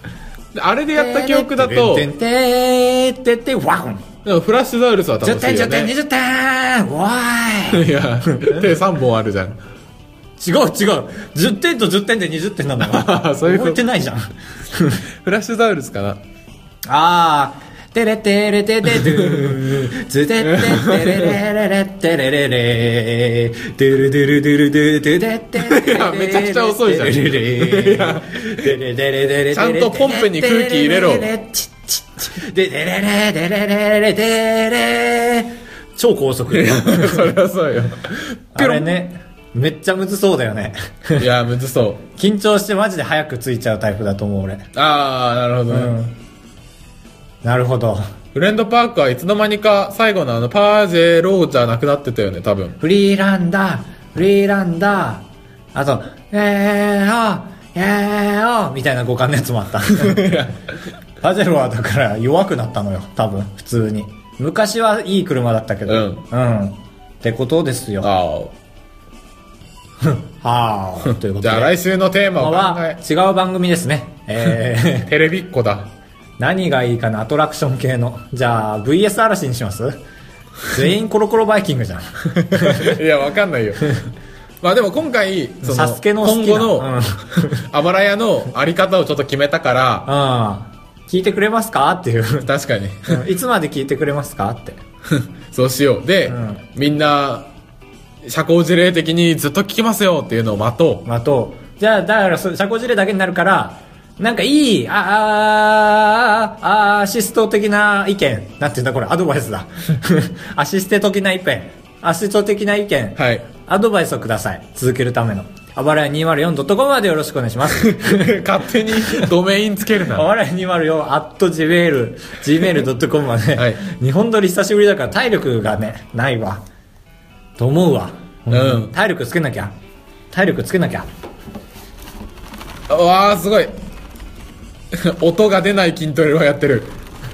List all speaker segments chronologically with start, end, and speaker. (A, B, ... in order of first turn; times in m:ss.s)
0:00.5-0:02.1 A
0:00.9-0:04.0 B
0:04.2-0:05.9 A
0:05.2-0:08.6 B
0:07.7-0:09.6 A
0:10.4-0:15.0 B
0:12.8-0:13.8 A
0:15.2-0:16.2 A
0:16.9-0:37.3 B
0:18.9-0:19.6 A
0:20.4-0:21.4 A
0:25.6-0:28.7 A
0:29.5-0:31.3 A
0:36.5-0:38.9 A
0:38.6-0:41.3 B
0:41.2-0:42.1 A
0:42.2-0:44.7 B
0:44.7-0:46.0 A
0:45.7-0:46.2 B
0:47.4-0:48.0 B
0:48.3-0:52.8 A
0:52.8-1:00.4 B
0:59.9-1:00.6 A
1:01.2-1:08.1 B
1:05.9-1:06.2 A
1:08.0-1:08.5 A
1:10.0-1:11.8 B
1:11.4-1:13.0 A
1:12.4-1:15.1 B
1:15.1-1:15.9 A
1:16.4-1:20.0 B
1:20.7-1:23.0 B
1:22.4-1:24.0 A
1:24.6-1:26.9 A
1:25.6-1:27.7 B
1:27.5-1:30.1 A
1:30.1-1:32.5 B
1:32.4-1:33.2 A
1:33.1-1:34.8 B
1:35.1-1:37.5 A
1:36.3-1:36.6 B
1:38.2-1:41.0 A
1:41.0-1:58.4 B
1:53.2-1:53.5 A
1:57.7-2:00.3 A
1:58.9-1:59.3 B
2:00.1-2:06.6 B
2:07.6-2:09.7 B
2:08.5-2:08.9 A
2:10.3-2:11.1 B
2:12.9-2:13.7 A
2:14.9-2:17.0 A